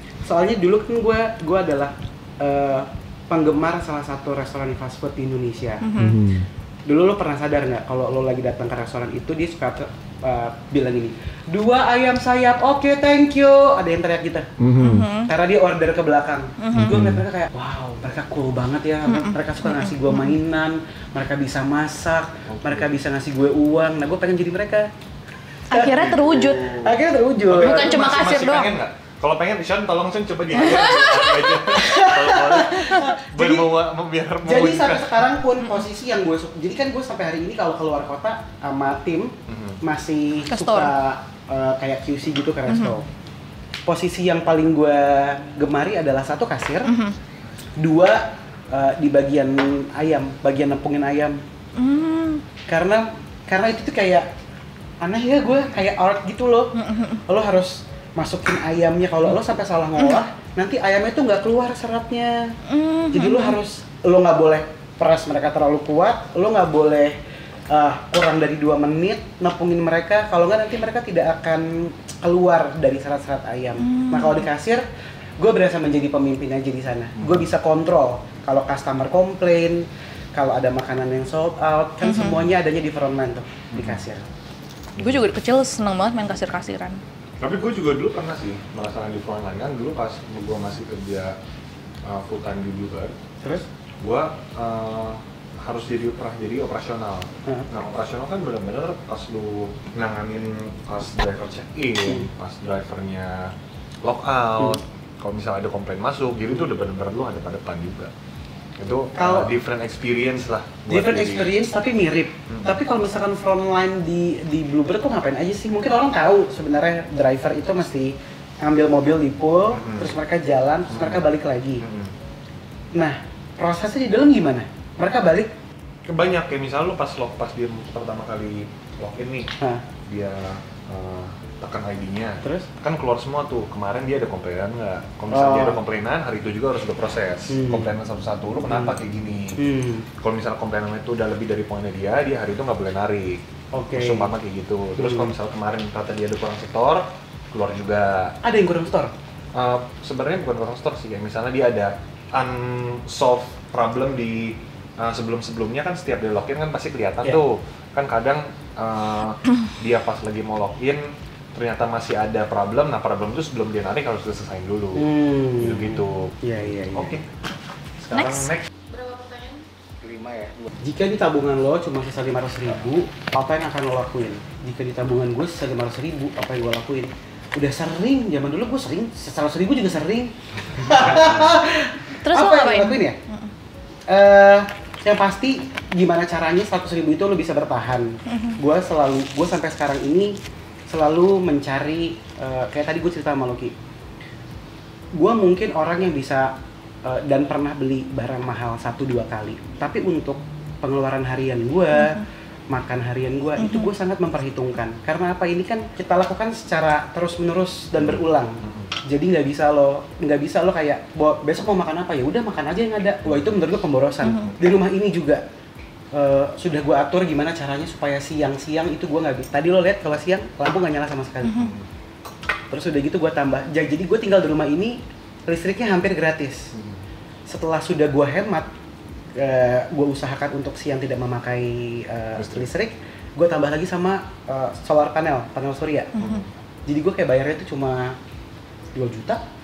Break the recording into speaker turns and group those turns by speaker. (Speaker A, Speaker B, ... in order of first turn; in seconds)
Speaker A: 0.2-5.9, 6.9-14.5, 15.2-24.9, 25.7-28.3, 31.7-33.7, 34.4-43.0, 43.9-46.9, 47.8-51.4, 52.7-54.3, 55.0-56.7, 57.3-62.5, 63.1-67.2, 67.7-74.8, 75.4-84.2, 109.2-109.5, 110.9-121.8, 123.0-125.5, 129.6-129.8, 132.4-132.7, 135.3-135.8, 137.5-137.9, 138.6-138.9, 139.6-140.1, 143.7-144.3, 145.0-145.3, 148.4-149.1, 164.9-167.2, 170.0-183.2, 184.1-190.3, 190.9-193.7, 195.2-196.5, 197.0-215.4, 216.1-221.7, 222.7-226.7, 227.5-228.7, 229.4-236.1, 236.9-238.2, 238.9-239.4
Speaker B: 5.8-6.2, 14.8-15.3, 16.6-17.0, 19.1-20.4, 25.7-26.8, 27.6-28.8, 30.6-31.6, 40.5-40.9, 42.7-42.9, 46.8-47.1, 51.8-52.4, 56.8-57.2, 62.7-63.6, 73.8-74.5, 82.0-82.4, 85.0-87.0, 168.1-169.6, 182.2-183.5, 188.3-188.6, 201.9-202.2, 203.6-203.9, 214.2-214.5, 221.4-221.7, 236.1-236.4
Speaker C: 6.0-6.5, 14.6-15.1, 16.8-17.2, 22.5-22.9, 25.8-26.9, 27.4-35.2, 39.5-39.8, 77.2-77.5, 83.7-84.0, 87.4-91.3, 92.0-108.1, 108.8-111.5, 112.5-112.7, 119.7-120.1, 120.9-121.2, 121.8-122.1, 126.1-129.5, 130.1-139.6, 140.2-148.3, 149.5-165.1, 165.6-166.3, 166.9-167.2, 168.0-168.6, 181.0-181.3, 207.9-208.9, 213.2-213.5, 221.6-221.9, 226.7-227.0, 232.4-232.7, 236.2-236.5